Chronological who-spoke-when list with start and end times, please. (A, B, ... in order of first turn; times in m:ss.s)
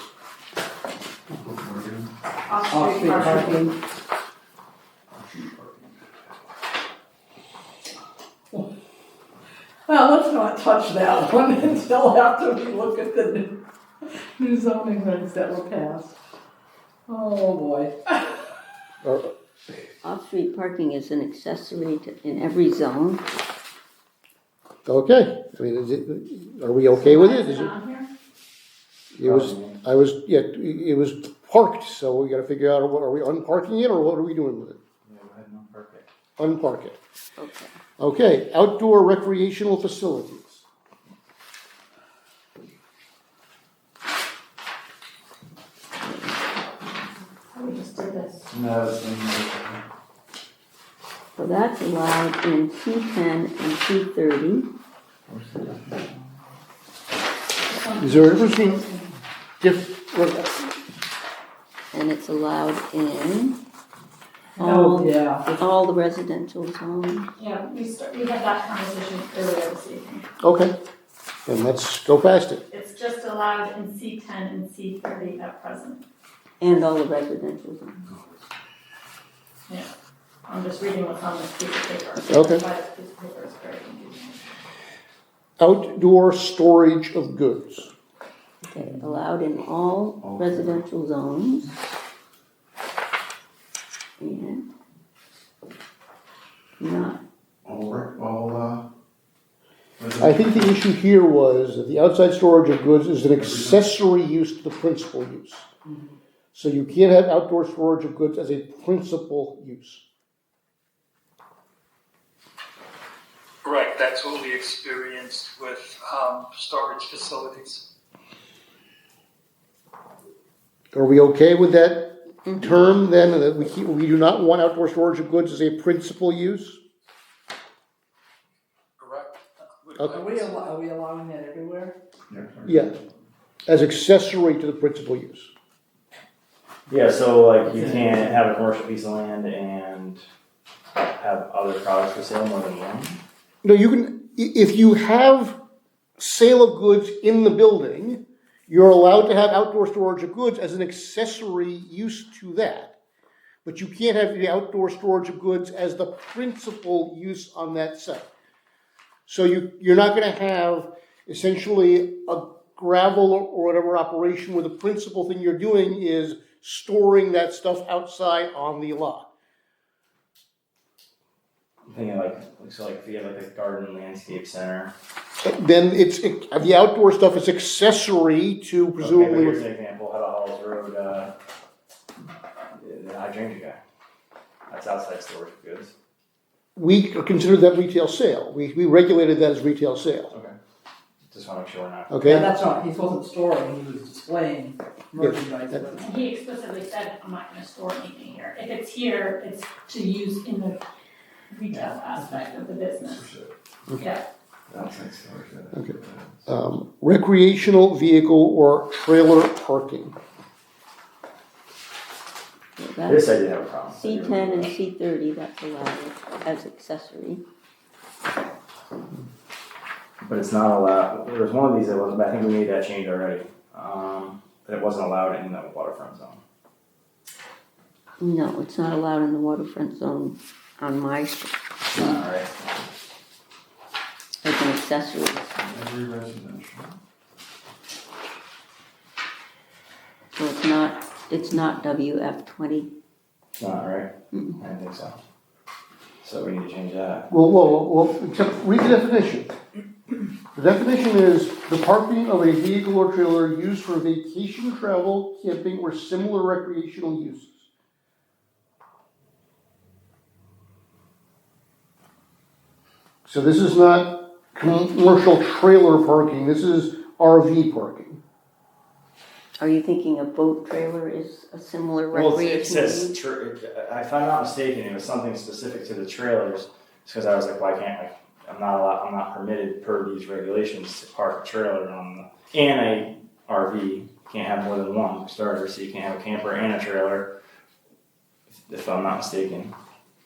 0:01.3-0:02.1 A
0:02.5-0:03.7 B
0:02.7-0:03.7 C
0:03.2-0:03.5 A
0:05.2-0:05.8 A
0:09.9-0:13.6 C
0:14.2-0:16.2 C
0:17.1-0:18.3 C
0:19.0-0:19.3 D
0:20.0-0:23.2 E
0:24.9-0:27.7 D
0:26.9-0:28.1 B
0:29.2-0:34.8 D
0:29.2-0:29.8 F
0:35.0-0:36.1 F
0:36.4-0:37.0 D
0:37.4-0:37.8 E
0:38.0-0:40.6 D
0:47.5-0:48.4 B
0:48.5-0:49.8 A
0:51.4-0:54.7 E
0:55.3-0:56.0 A
0:57.6-0:59.1 B
0:58.0-0:58.8 D
0:59.6-1:00.6 D
1:01.9-1:03.6 E
1:04.6-1:07.3 E
1:04.6-1:04.9 B
1:04.7-1:05.5 C
1:07.4-1:10.3 B
1:10.4-1:10.8 D
1:11.5-1:12.6 D
1:12.7-1:16.0 B
1:16.6-1:18.0 E
1:20.5-1:24.4 B
1:22.3-1:22.6 D
1:25.6-1:27.9 D
1:28.6-1:31.7 E
1:30.2-1:30.8 A
1:34.2-1:34.6 E
1:36.8-1:37.2 E
1:37.7-1:38.8 A
1:40.0-1:40.8 A
1:40.2-1:45.7 D
1:43.4-1:43.8 A
1:46.5-1:50.0 D
1:53.6-1:57.8 G
2:00.9-2:06.8 D
2:02.5-2:02.7 E
2:09.0-2:10.6 G
2:10.1-2:12.0 C
2:12.3-2:12.9 A
2:12.7-2:13.0 D
2:13.7-2:15.5 D
2:16.9-2:20.2 F
2:21.2-2:23.2 F
2:23.6-2:25.6 D
2:26.2-2:32.9 D
2:33.6-2:38.3 D
2:39.3-2:49.3 D
2:51.9-2:54.9 F
2:55.4-2:59.6 D
2:59.0-3:01.3 F
3:02.8-3:03.8 F
3:04.7-3:05.9 F
3:06.8-3:10.3 D
3:11.3-3:12.3 F
3:12.1-3:12.5 D
3:12.2-3:16.1 C
3:15.2-3:15.9 D
3:16.0-3:20.8 B
3:21.5-3:23.2 B
3:23.0-3:23.5 A
3:24.7-3:25.4 F
3:24.7-3:26.3 A
3:26.5-3:30.2 D
3:32.8-3:33.2 E
3:33.1-3:34.8 F
3:33.9-3:37.4 E
3:40.2-3:46.4 F
3:48.2-3:52.1 E
3:51.9-3:52.5 F
3:54.4-3:55.5 E
3:55.6-3:57.0 A
4:00.4-4:02.9 E
4:03.6-4:05.2 F
4:06.2-4:07.3 F
4:07.3-4:09.5 D
4:10.6-4:17.6 D
4:23.3-4:28.2 D
4:29.6-4:33.2 E
4:32.1-4:47.3 F
4:48.7-4:49.7 F